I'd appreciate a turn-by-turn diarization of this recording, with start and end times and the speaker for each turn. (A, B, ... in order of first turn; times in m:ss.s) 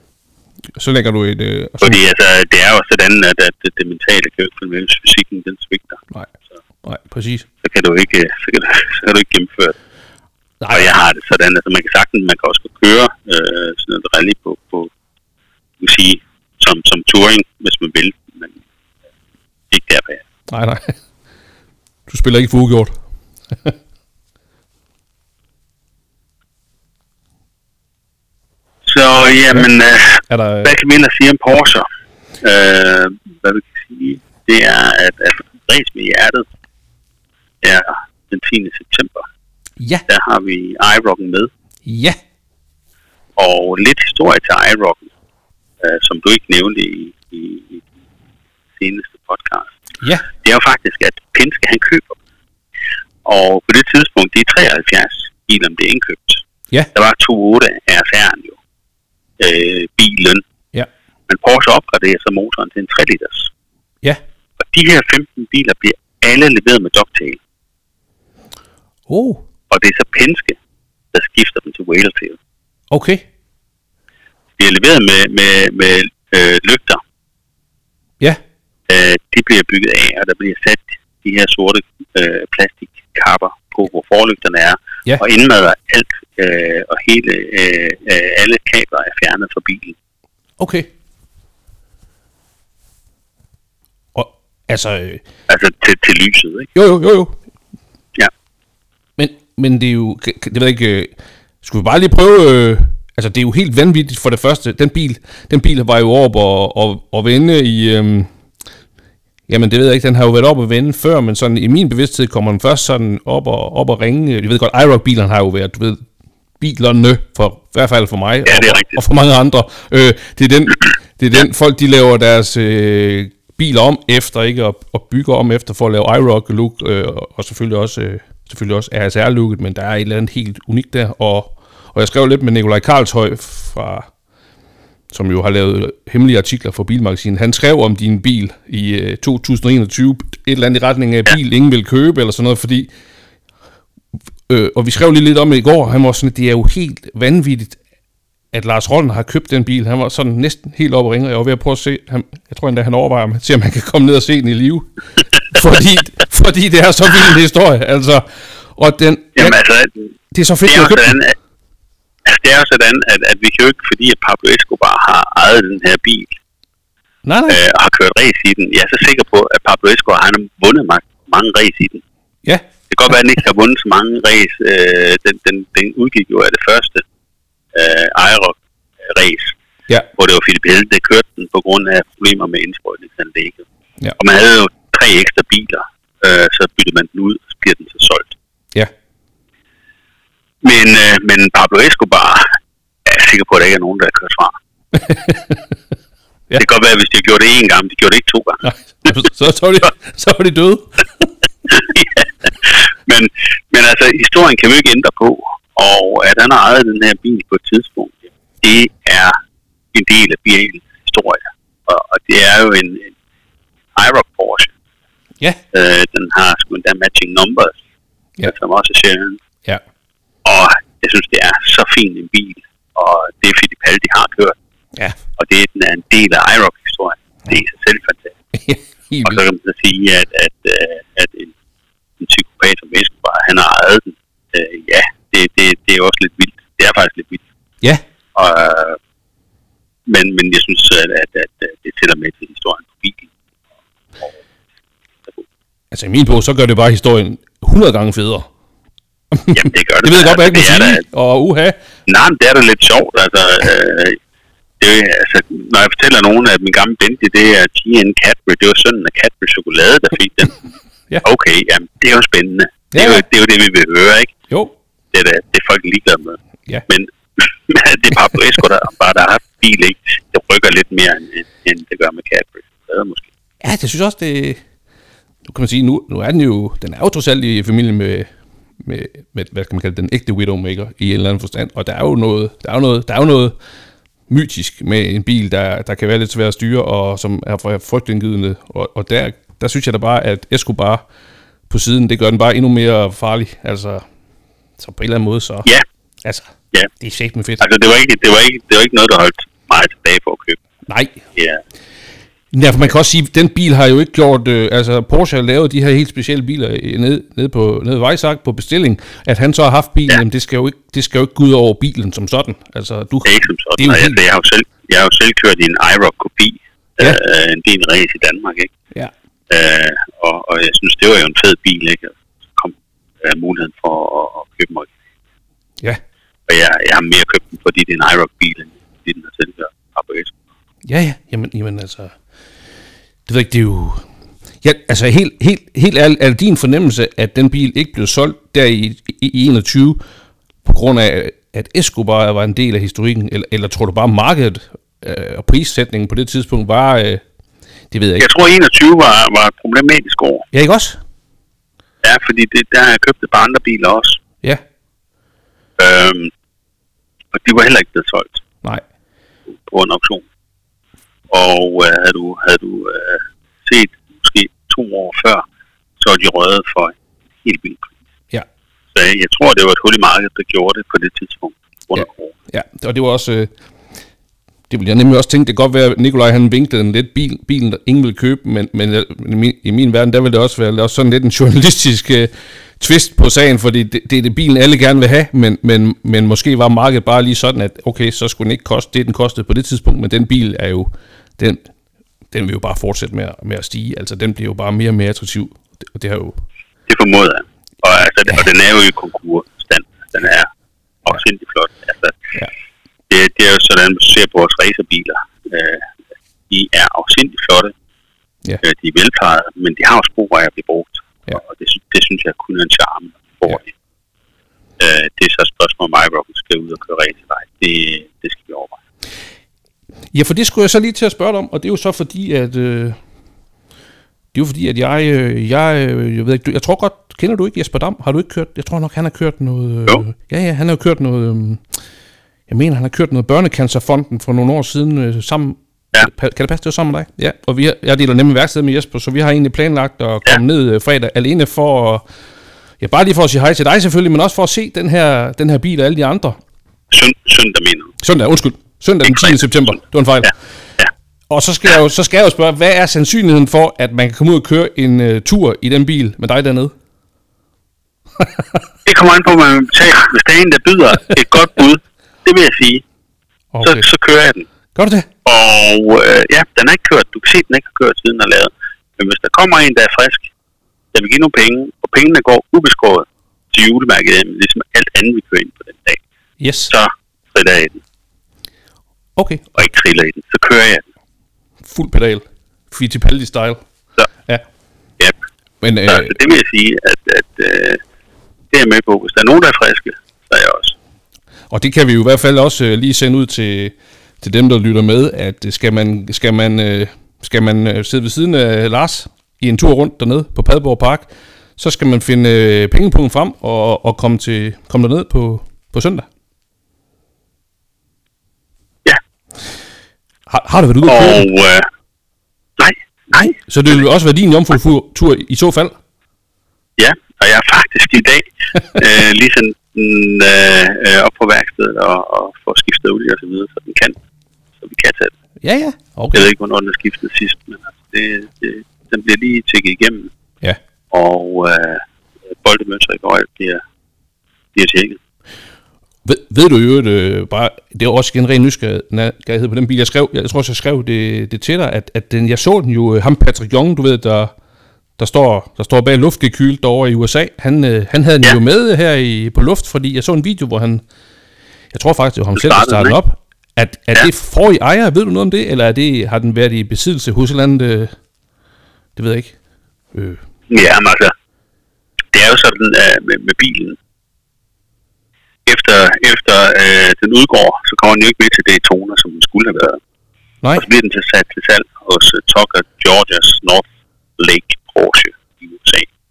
0:00.8-0:02.0 A
0:01.8-0:06.0 B
0:06.8-0:07.4 A
0:07.6-0:09.8 B
0:10.6-0:10.9 A
0:10.7-0:14.9 B
0:15.8-0:18.5 B
0:19.7-0:20.2 B
0:20.5-0:20.9 A
0:22.1-0:22.9 A
0:28.8-0:31.8 B
0:30.3-0:30.7 A
0:32.4-0:36.4 B
0:37.6-0:39.2 B
0:39.8-0:40.0 A
0:40.1-0:41.5 B
0:41.8-0:42.2 A
0:43.4-0:45.1 B
0:45.8-0:47.8 B
0:48.8-0:49.8 B
0:50.4-0:52.2 B
0:53.2-0:56.4 B
0:56.9-0:58.6 B
0:59.4-1:00.4 B
1:01.3-1:03.5 B
1:04.6-1:07.4 B
1:09.1-1:09.4 A
1:09.7-1:10.6 B
1:11.1-1:12.4 B
1:12.9-1:13.2 A
1:14.6-1:17.0 B
1:18.9-1:30.0 B
1:30.6-1:30.9 A
1:34.1-1:35.2 A
1:35.5-1:36.7 B
1:36.7-1:37.3 A
1:39.2-1:41.1 A
1:41.6-1:48.3 A
1:49.5-1:56.0 A
1:56.6-2:14.1 A
1:58.4-1:59.0 B
2:15.1-2:22.9 A
2:24.5-2:27.8 A
2:28.5-2:34.8 A
2:35.5-2:38.2 A
2:38.8-2:39.5 A
2:39.4-2:40.1 B
2:40.3-2:41.2 A
2:40.6-2:41.3 B
2:42.2-2:46.3 B
2:47.2-2:47.6 A
2:47.5-2:52.0 B
2:52.9-2:57.0 B
2:57.7-2:58.6 B
2:59.1-2:59.5 B
3:00.2-3:03.6 B
3:04.2-3:08.3 B
3:10.6-3:12.5 B
3:13.0-3:14.6 B
3:14.9-3:15.7 A
3:16.6-3:18.7 B
3:18.6-3:21.3 A
3:21.7-3:29.4 B
3:29.9-3:33.1 B
3:34.0-3:34.7 B
3:35.7-3:37.8 B
3:38.4-3:39.4 B
3:40.4-3:44.5 B
3:45.4-3:48.3 B
3:48.5-3:49.4 A
3:49.2-3:51.5 B
3:52.2-3:57.4 B
3:58.3-3:59.0 B
4:00.1-4:03.3 B
4:05.9-4:08.5 A
4:09.3-4:11.8 A
4:09.5-4:11.0 B
4:12.1-4:14.2 B
4:14.8-4:20.6 B
4:21.2-4:24.3 B
4:22.9-4:23.2 A
4:25.1-4:33.3 B
4:33.6-4:34.6 A
4:35.5-4:38.3 A
4:38.8-4:43.5 A
4:44.3-4:51.0 A
4:51.7-4:54.0 A
4:54.8-4:55.7 A
4:56.2-4:57.6 A
4:57.6-5:00.6 B
5:00.9-5:01.2 A
5:01.3-5:01.6 B
5:02.5-5:14.2 A
5:13.2-5:18.7 B
5:19.5-5:25.0 B
5:26.5-5:30.3 B
5:30.9-5:32.1 A
5:33.3-5:34.0 A
5:34.6-5:40.0 A
5:40.6-5:47.2 A
5:47.9-5:48.2 A
5:48.2-5:50.4 B
5:50.5-5:51.0 A
5:52.0-5:54.2 B
5:55.8-5:56.3 B
5:57.3-5:58.4 B
5:59.5-6:00.2 B
6:01.3-6:05.4 B
6:06.0-6:07.9 B
6:08.9-6:12.3 B
6:12.0-6:13.5 A
6:14.7-6:31.6 A
6:32.3-6:36.4 A
6:36.9-6:40.5 B
6:41.0-6:42.3 B
6:43.1-6:45.9 B
6:46.5-6:47.7 B
6:48.6-6:53.7 B
6:54.8-6:58.8 B
7:00.1-7:03.0 A
7:04.3-7:11.6 A
7:12.5-7:22.0 A
7:22.8-7:26.4 A
7:26.9-7:27.9 B
7:28.0-7:30.3 A
7:29.0-7:29.4 B
7:31.3-7:36.7 A
7:38.8-7:42.8 B
7:43.5-7:43.8 A
7:43.6-7:44.5 B
7:44.7-7:45.1 A
7:45.2-7:50.3 B
7:50.9-7:56.0 B
7:56.4-7:56.7 A
7:56.7-7:57.8 B
7:59.2-7:59.4 A
7:59.5-8:00.8 B
8:01.6-8:03.6 A
8:05.6-8:06.1 A
8:05.8-8:07.8 B
8:08.5-8:10.8 B
8:11.5-8:26.0 A
8:30.3-8:31.2 A
8:30.8-8:31.7 B
8:32.6-8:33.3 B
8:33.1-8:35.7 A
8:36.8-8:44.0 B
8:44.6-8:45.1 B
8:45.4-8:46.3 A
8:46.1-8:50.1 B
8:50.9-8:51.8 B
8:52.4-8:53.6 B
8:54.5-8:55.0 B
8:56.0-9:04.3 A
9:05.0-9:10.8 A
9:11.7-9:17.9 A
9:12.3-9:13.0 B
9:19.0-9:19.3 A
9:19.9-9:20.2 A
9:20.5-9:21.1 B
9:22.1-9:23.8 B
9:25.4-9:29.8 B
9:30.5-9:33.6 B
9:34.2-9:35.9 B